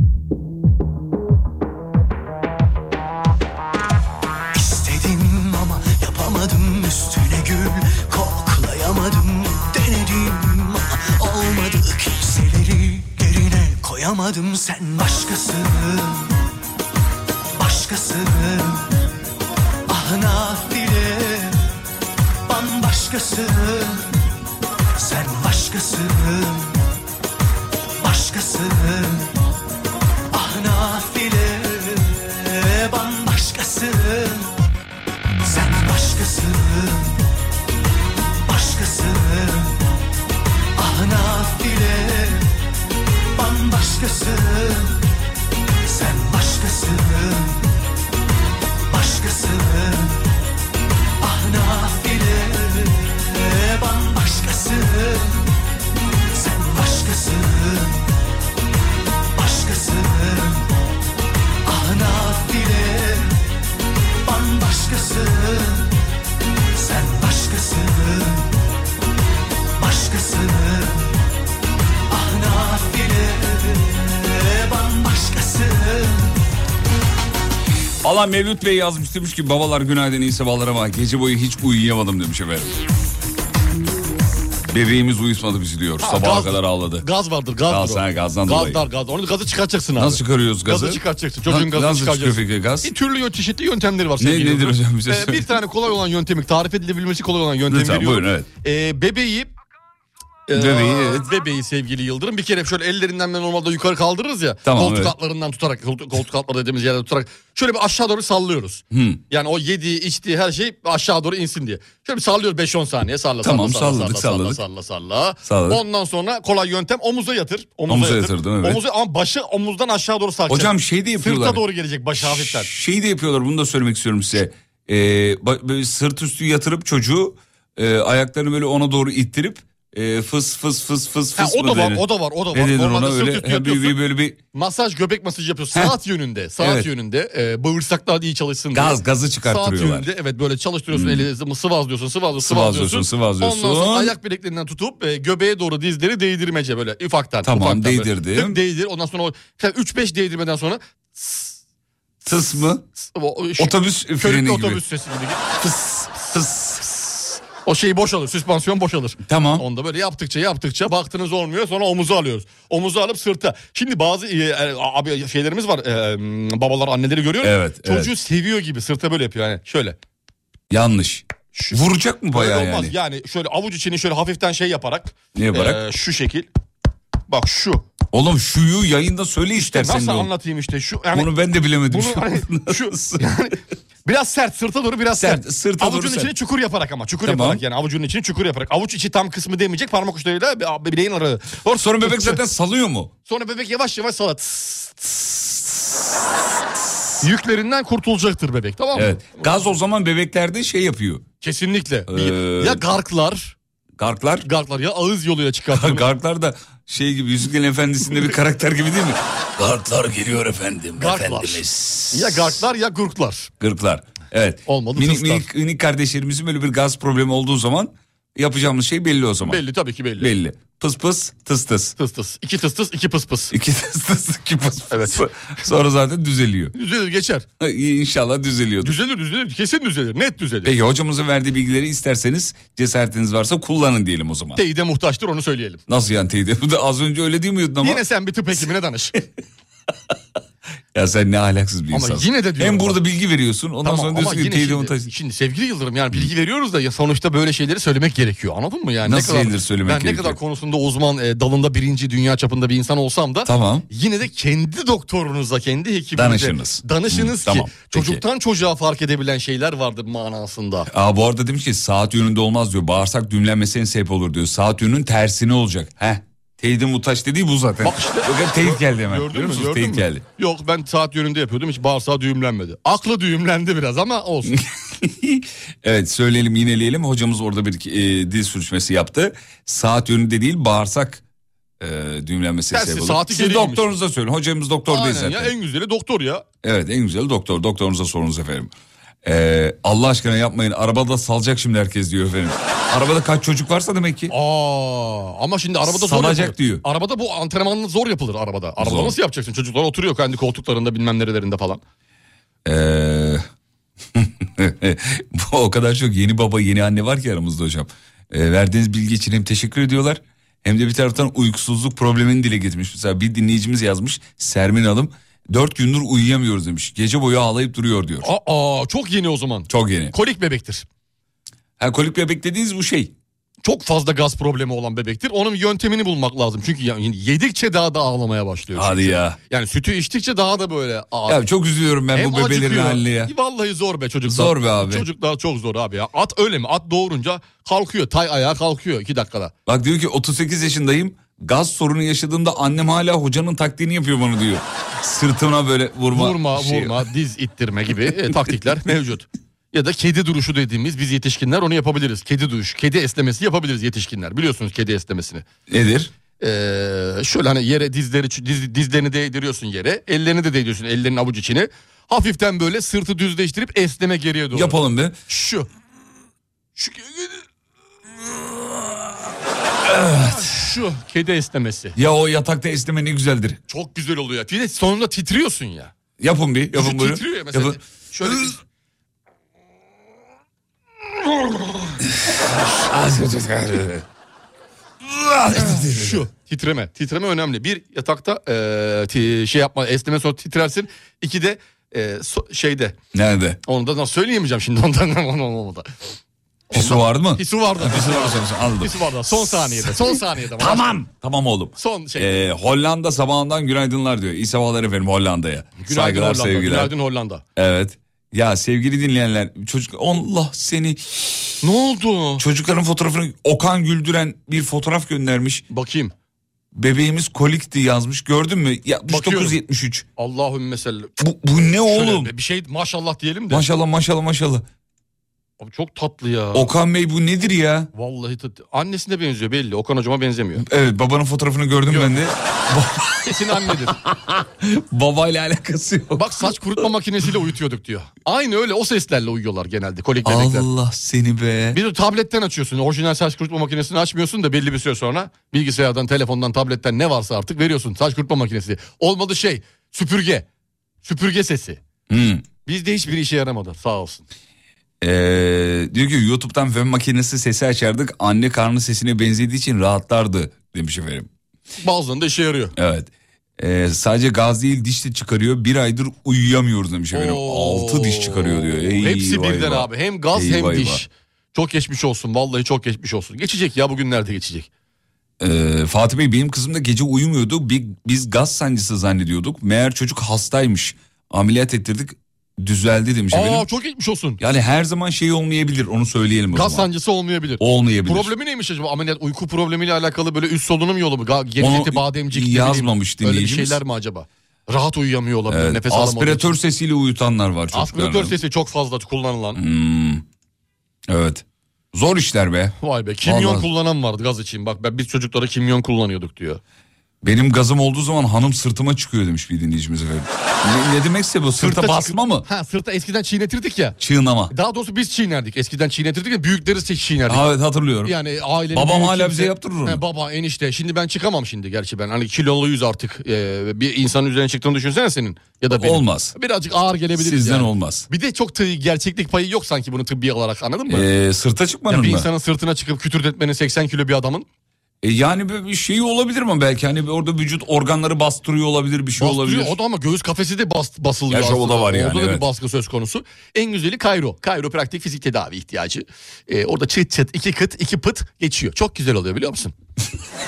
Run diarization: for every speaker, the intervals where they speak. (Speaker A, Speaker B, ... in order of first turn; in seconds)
Speaker A: 4.5-16.3, 17.6-18.9, 19.9-21.6, 22.4-24.1, 25.0-26.8, 28.0-29.3, 30.3-34.5, 35.4-37.2, 38.4-39.8, 40.8-42.5, 43.3-45.0, 45.8-47.7, 48.9-50.2, 51.2-55.5, 56.3-58.1, 59.3-60.6, 61.6-63.4, 64.2-65.9, 66.7-68.5, 69.8-71.1, 72.1-76.3
Speaker B: 78.0-82.8, 84.7-87.0, 87.7-88.8, 90.0-92.9, 94.2-95.5, 97.7-98.5, 100.5-101.2, 104.6-105.1, 108.9-109.2, 113.4-114.6, 115.4-115.8, 117.9-118.8, 120.5-121.6, 122.2-134.4, 136.6-136.9, 138.7-140.1, 140.9-141.3, 142.4-144.2, 147.4-148.6, 152.2-152.8, 153.6-154.8, 155.6-156.9, 159.2-159.7, 167.4-168.1, 170.7-172.9, 175.3-175.8, 178.1-180.3, 181.1-183.3, 185.2-186.3, 187.2-187.6, 191.8-193.1, 198.9-201.2, 202.1-202.8, 204.0-204.5, 205.7-212.6, 213.6-219.6, 220.2-221.9, 223.5-226.7, 227.6-228.9, 230.6-234.6, 235.9-238.0, 240.9-245.1, 249.0-250.4, 253.4-253.8, 256.1-258.2, 260.9-270.2, 274.5-281.2, 281.8-285.5, 286.6-288.7, 289.2-294.3, 295.8-296.8, 298.8-299.1, 302.6-303.4, 304.1-318.3, 319.7-320.1, 321.8-323.1, 328.7-329.4, 331.2-333.3, 334.2-335.1, 339.7-347.1, 355.7-356.1, 364.5-365.2, 369.8-370.6, 371.9-373.6, 376.2-378.5, 382.2-384.0, 385.0-386.2, 393.1-393.6, 396.7-406.9, 407.6-411.6, 412.4-415.6, 416.7-420.0, 421.2-422.3, 423.5-424.6, 426.5-427.9, 430.6-436.5, 440.2-441.8, 452.1-452.4, 455.0-461.3, 462.8-471.0, 475.4-483.6, 484.4-486.9, 487.6-488.3, 491.6-493.8, 495.5-498.4, 499.5-500.2, 501.1-503.7, 507.2-512.5, 514.0-514.5, 517.3-518.1, 518.7-520.0, 525.7-526.3, 527.1-528.1, 530.9-532.3, 535.0-539.8, 541.3-542.5
Speaker C: 86.0-99.5, 100.5-122.7, 131.4-133.9, 134.5-151.6, 153.0-155.4, 157.6-169.9, 171.5-171.8, 172.3-176.5, 177.3-177.8, 179.5-181.3, 181.9-192.4, 193.3-195.2, 197.2-199.5, 201.4-203.6, 204.4-206.1, 210.9-213.5, 214.7-215.5, 219.4-220.3, 222.0-223.5, 224.9-225.2, 226.7-227.4, 228.8-230.7, 234.6-235.8, 237.8-239.2, 241.9-243.0, 243.8-260.9, 267.8-274.6, 282.7-283.9, 284.9-286.4, 294.3-301.8, 318.2-320.9, 323.6-331.4, 332.1-339.5, 346.1-355.4, 356.4-364.8, 365.3-365.7, 366.8-367.4, 370.1-371.9, 373.7-375.9, 376.7-378.6, 385.6-393.0, 393.6-395.9, 396.7-400.9, 401.8-402.4, 405.8-407.4, 411.6-412.4, 415.7-416.1, 419.1-419.6, 420.2-421.1, 421.9-423.6, 425.6-426.7, 427.9-430.6, 431.9-432.2, 433.2-434.0, 436.1-440.7, 441.7-450.5, 451.0-451.8, 452.6-454.2, 461.8-462.7, 467.1-474.7, 483.3-484.4, 486.5-496.6, 497.7-499.6, 502.8-506.6, 511.6-514.0, 514.5-517.5, 518.0-531.0, 531.9-534.5, 539.2-549.7